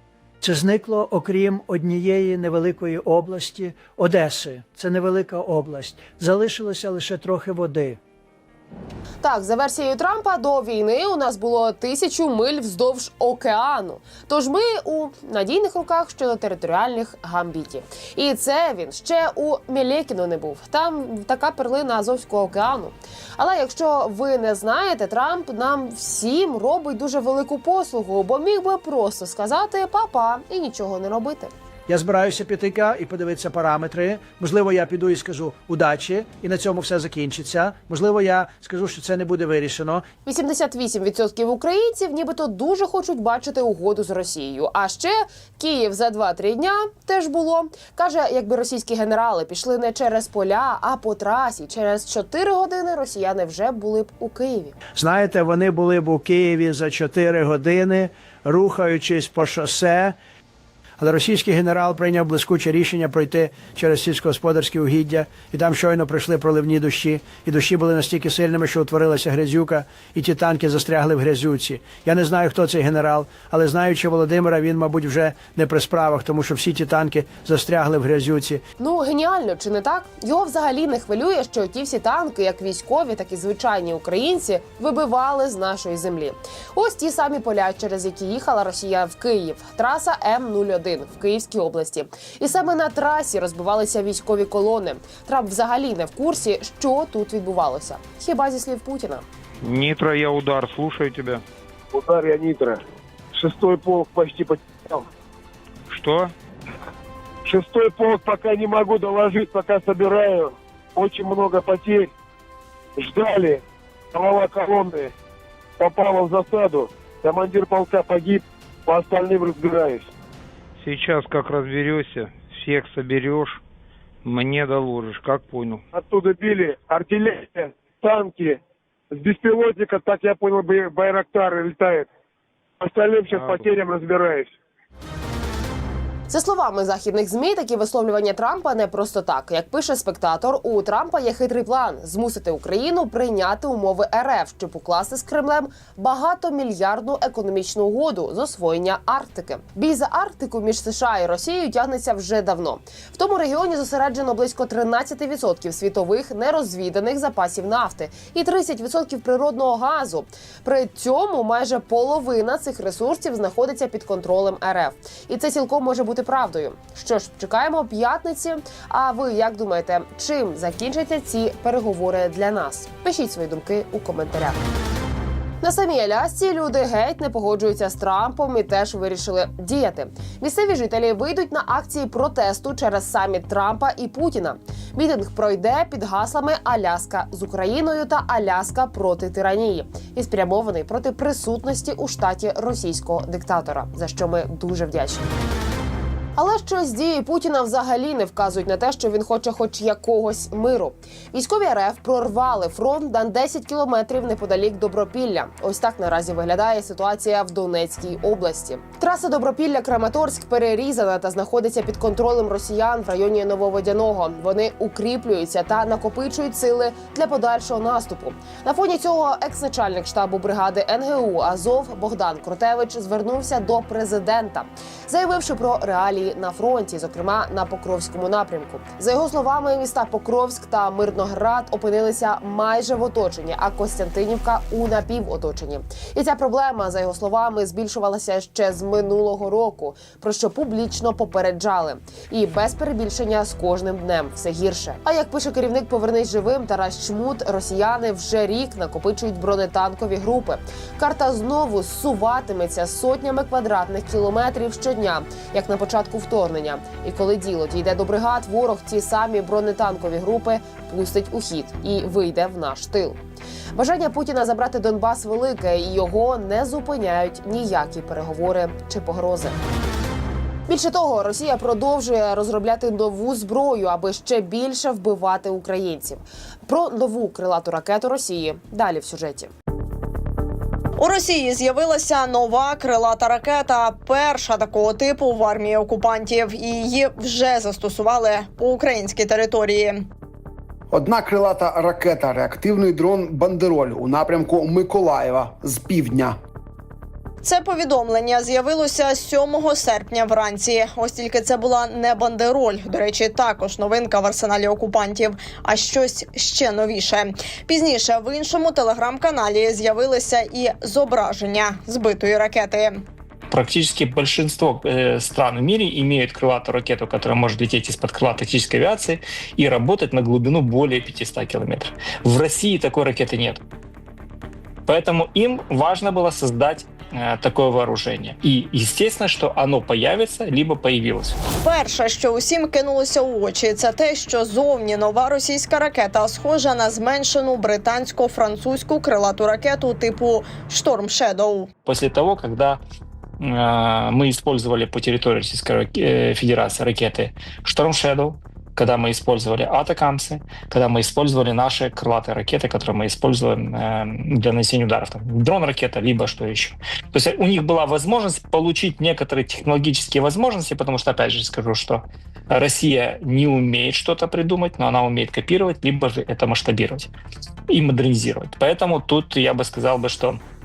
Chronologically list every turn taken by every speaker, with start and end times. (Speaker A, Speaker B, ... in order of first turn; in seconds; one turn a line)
Speaker A: 0.4-8.0
Speaker B: 9.2-31.5
Speaker A: 31.9-40.0
Speaker B: 40.2-54.8
Speaker A: 55.0-60.2
Speaker A: 61.0-78.6
Speaker B: 78.8-99.2
Speaker C: 99.6-101.4
Speaker D: 101.9-102.8
Speaker D: 103.3-105.1
Speaker C: 105.9-106.3
Speaker D: 107.5-112.1
Speaker D: 113.0-113.6
Speaker D: 114.1-115.1
Speaker D: 115.8-120.1
Speaker C: 120.8-123.6
Speaker C: 124.2-125.8
Speaker D: 125.9-128.6
Speaker D: 129.1-132.1
Speaker D: 132.8-134.5
Speaker B: 136.3-174.6
Speaker B: 175.6-195.3
Speaker B: 196.4-263.2
Speaker B: 263.8-269.6
Speaker B: 270.7-279.5
Speaker E: 281.0-290.0
Speaker F: 290.9-296.4
Speaker E: 297.4-312.9
Speaker G: 313.5-323.6
Speaker G: 324.9-331.4
Speaker E: 331.6-341.7
Speaker G: 341.8-342.8
Speaker G: 343.4-367.1
Speaker G: 367.7-370.4